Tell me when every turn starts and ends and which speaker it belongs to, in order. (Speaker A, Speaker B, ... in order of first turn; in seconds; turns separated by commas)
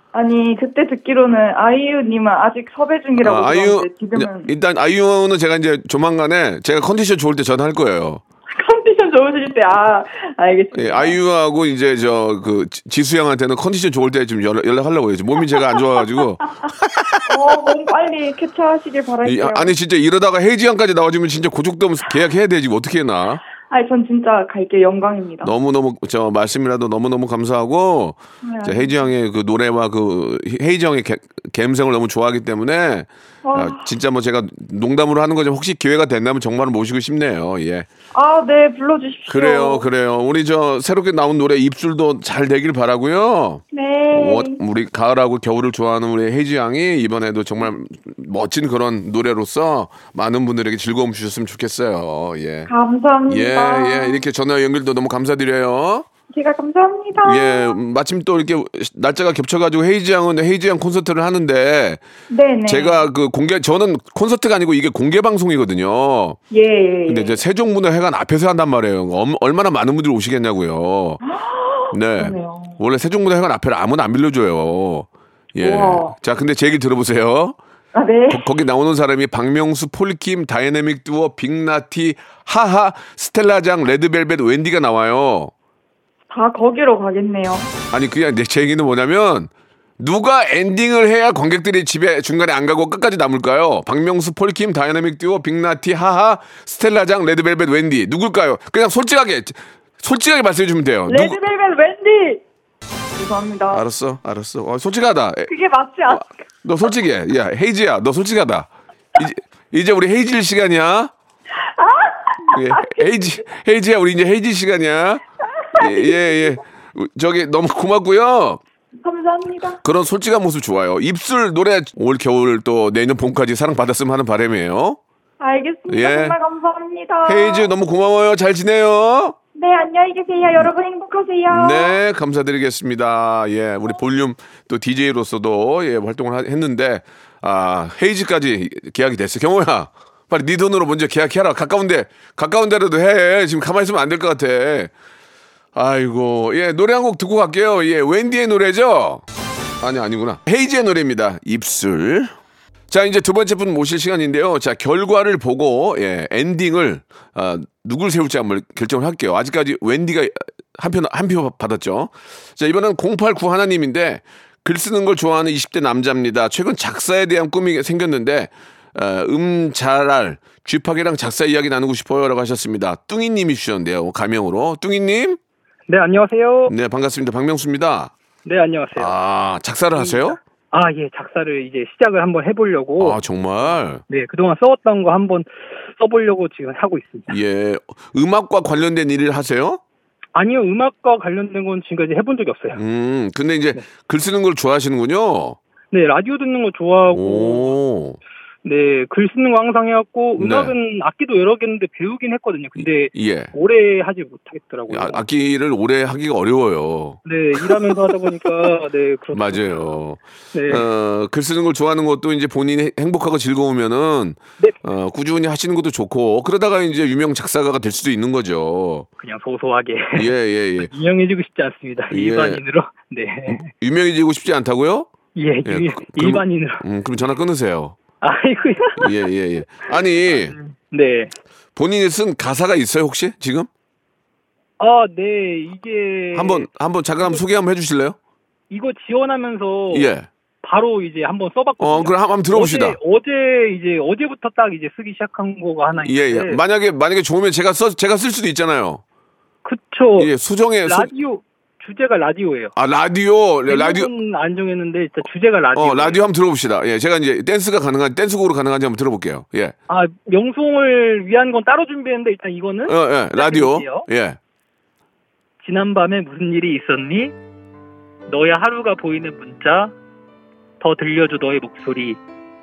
Speaker A: 0.1-4.5, Speaker B: 3.2-8.2, Speaker A: 8.5-11.2, Speaker B: 10.7-17.4, Speaker A: 17.3-19.7, Speaker B: 19.2-23.4, Speaker A: 23.7-25.5, Speaker B: 25.4-37.9, Speaker A: 28.4-29.1, Speaker A: 33.4-33.9, Speaker A: 38.1-39.9, Speaker B: 39.3-52.7, Speaker A: 43.7-44.6, Speaker A: 52.7-54.2, Speaker B: 53.3-56.1, Speaker A: 56.3-57.8, Speaker B: 57.2-62.0, Speaker A: 62.3-63.1, Speaker B: 62.6-66.4, Speaker A: 66.5-67.4, Speaker B: 67.0-71.2, Speaker A: 71.2-72.8, Speaker B: 71.9-77.6, Speaker A: 75.6-76.1, Speaker A: 77.9-78.5, Speaker B: 78.3-85.5, Speaker A: 86.3-87.7, Speaker B: 87.9-101.4, Speaker A: 101.1-102.4, Speaker A: 103.2-103.8, Speaker B: 103.7-105.5, Speaker A: 105.5-106.3, Speaker B: 106.1-111.1, Speaker A: 111.8-113.1, Speaker B: 112.5-115.2, Speaker A: 115.7-116.5, Speaker B: 115.8-118.6, Speaker A: 119.0-119.8, Speaker B: 119.8-125.0, Speaker A: 125.4-127.7, Speaker B: 125.9-126.3, Speaker B: 127.2-129.3, Speaker A: 129.6-132.0, Speaker B: 131.5-144.9, Speaker B: 145.7-149.2, Speaker B: 149.8-152.3, Speaker B: 152.9-175.4, Speaker C: 175.9-176.7, Speaker B: 176.7-178.1, Speaker C: 178.4-179.1, Speaker B: 178.9-180.4, Speaker C: 179.9-183.2, Speaker B: 183.0-184.0, Speaker C: 184.1-187.3, Speaker B: 187.3-189.8, Speaker C: 190.3-192.8, Speaker B: 192.7-195.6, Speaker C: 195.9-197.7, Speaker B: 197.1-198.2, Speaker C: 198.6-205.2, Speaker B: 200.4-200.7, Speaker B: 202.8-203.5, Speaker B: 204.9-208.7, Speaker C: 207.2-209.8, Speaker B: 209.3-219.1, Speaker C: 210.5-210.9, Speaker C: 219.2-223.7, Speaker B: 220.1-220.9, Speaker B: 222.1-222.6, Speaker B: 223.5-225.1, Speaker C: 225.3-226.8, Speaker B: 225.6-228.0, Speaker C: 228.2-229.2, Speaker B: 229.0-230.6, Speaker C: 230.3-231.3, Speaker B: 231.8-233.7, Speaker C: 234.8-236.7, Speaker B: 236.3-238.2, Speaker C: 238.7-246.6, Speaker B: 239.9-240.3, Speaker B: 241.8-243.0, Speaker B: 245.9-249.0, Speaker C: 249.6-250.3, Speaker B: 250.2-251.1, Speaker C: 250.8-252.7, Speaker B: 252.8-254.1, Speaker C: 253.7-256.2, Speaker B: 255.7-259.7, Speaker C: 259.9-264.1, Speaker B: 262.9-264.4, Speaker C: 265.6-267.3, Speaker C: 268.3-269.9, Speaker C: 270.8-272.2